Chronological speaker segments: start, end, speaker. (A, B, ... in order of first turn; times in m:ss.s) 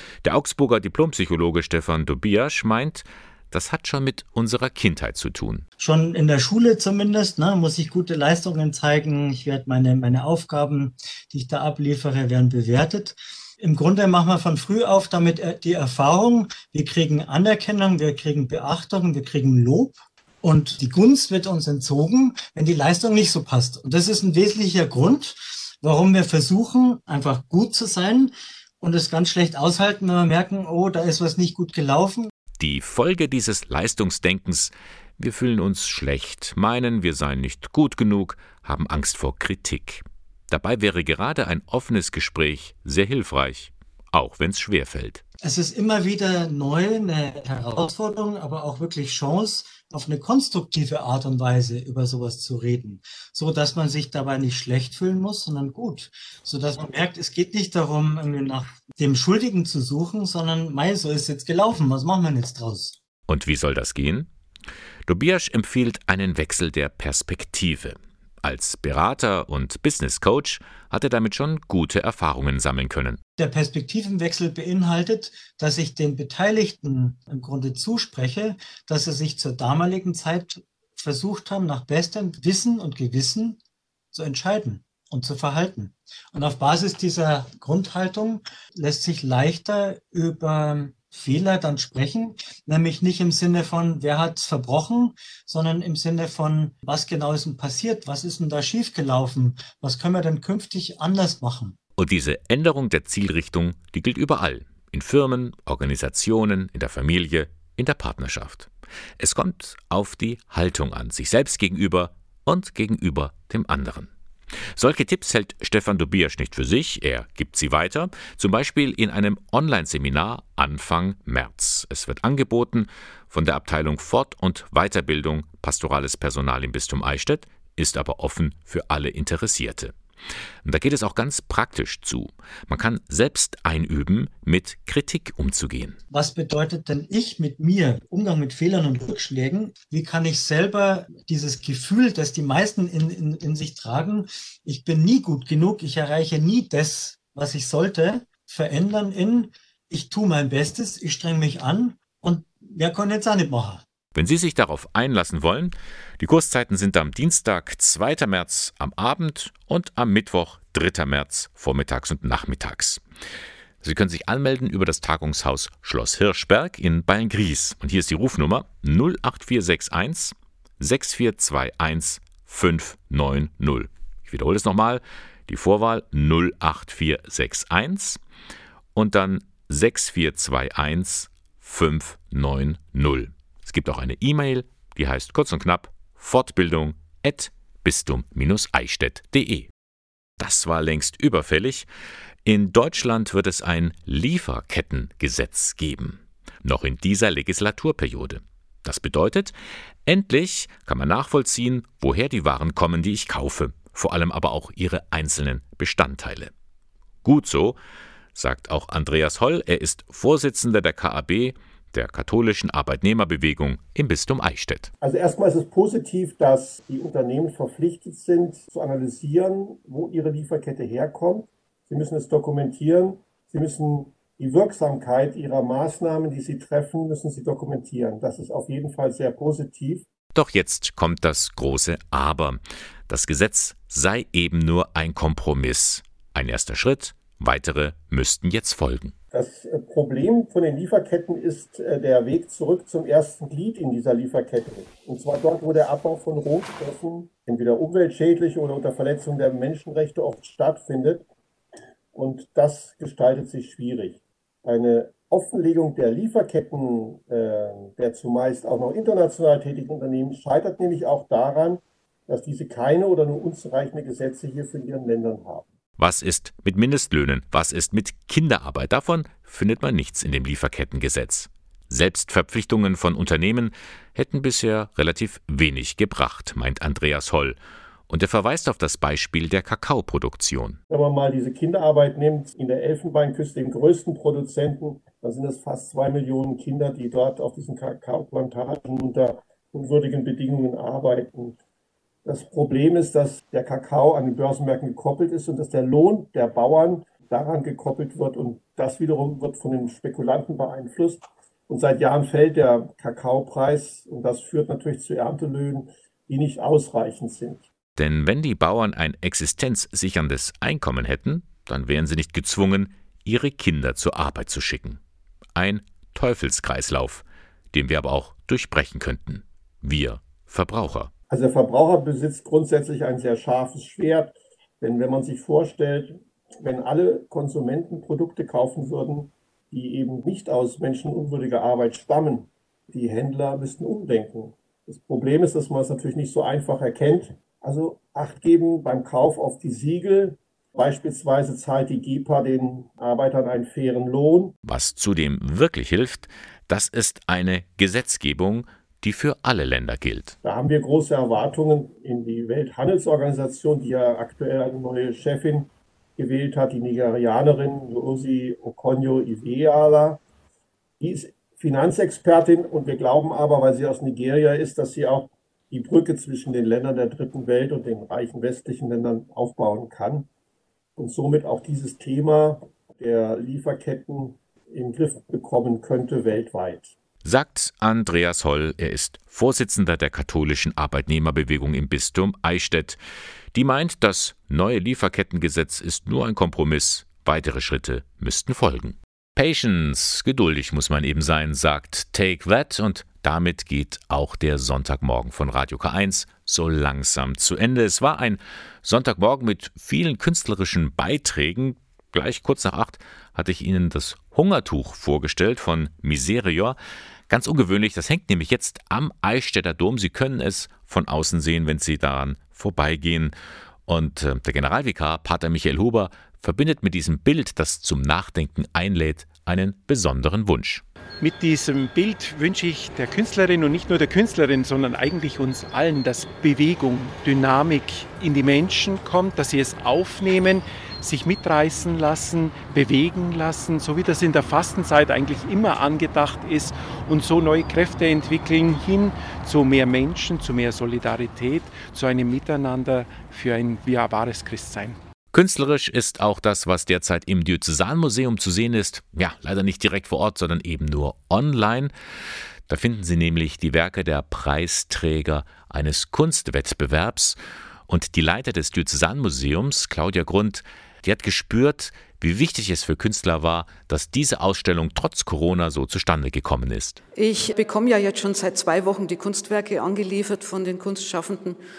0:00.2-0:05.6 A
0:05.8-0:32.3 B
0:32.6-0:45.2 A
0:45.4-1:03.0 B
1:03.3-1:04.3 A
1:05.1-1:13.2 A
1:13.4-1:23.6 B
1:24.1-1:41.8 B
1:42.0-1:54.1 A
1:54.8-2:10.0 A
2:10.6-2:16.0 A
2:16.1-2:33.8 B
2:34.2-2:43.0 A
2:43.8-2:58.2 A
2:59.0-3:09.7 A
3:10.4-3:11.9 A
3:12.4-3:19.5 A
3:20.1-3:26.5 A
3:27.2-3:27.8 A
3:28.4-3:34.9 A
3:35.0-3:50.1 C
3:50.3-3:59.2 A
3:59.3-4:11.2 C
4:12.1-4:25.6 C
4:26.0-4:37.6 A
4:38.1-4:40.8 A
4:40.9-4:51.6 C
4:52.2-5:07.7 C
5:08.0-5:15.0 A
5:15.6-5:21.1 A
5:21.3-5:44.6 C
5:44.6-5:50.4 A
5:50.4-6:00.2 C
6:01.0-6:10.3 C
6:11.0-6:16.9 C
6:17.2-6:23.0 A
6:23.5-6:46.8 A
6:47.3-6:53.4 A
6:53.9-7:00.8 A
7:01.2-7:25.0 D
7:25.3-7:31.9 A
7:32.7-7:47.0 A
7:47.2-7:51.6 E